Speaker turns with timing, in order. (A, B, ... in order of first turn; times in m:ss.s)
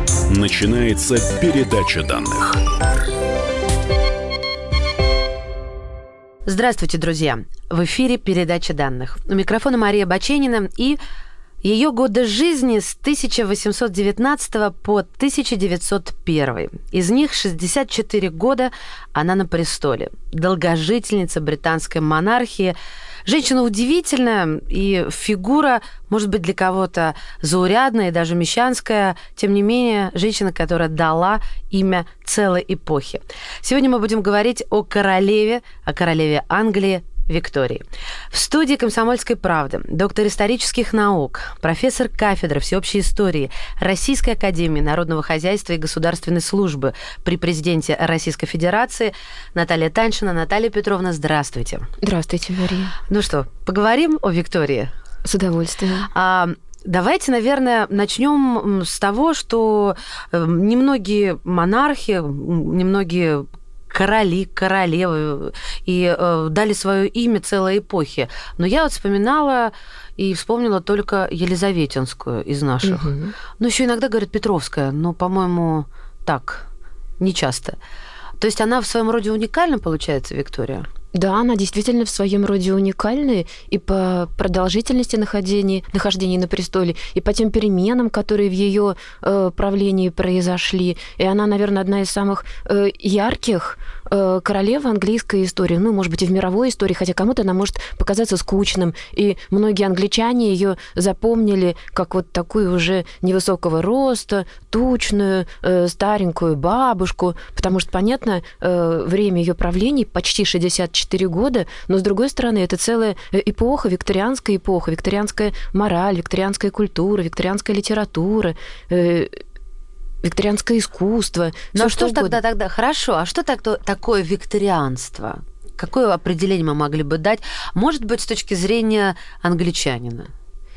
0:00.3-0:02.6 A
0:06.5-0:11.0 B
0:11.6-0:51.9 B
0:52.0-0:53.0 C
0:53.1-0:54.9 B
0:55.2-0:56.1 C
0:56.1-1:16.7 B
1:12.8-1:13.3 C
1:17.2-1:17.8 B
1:18.4-1:20.9 B
1:21.1-1:59.4 C
2:00.2-2:02.4 C
2:01.7-2:10.3 B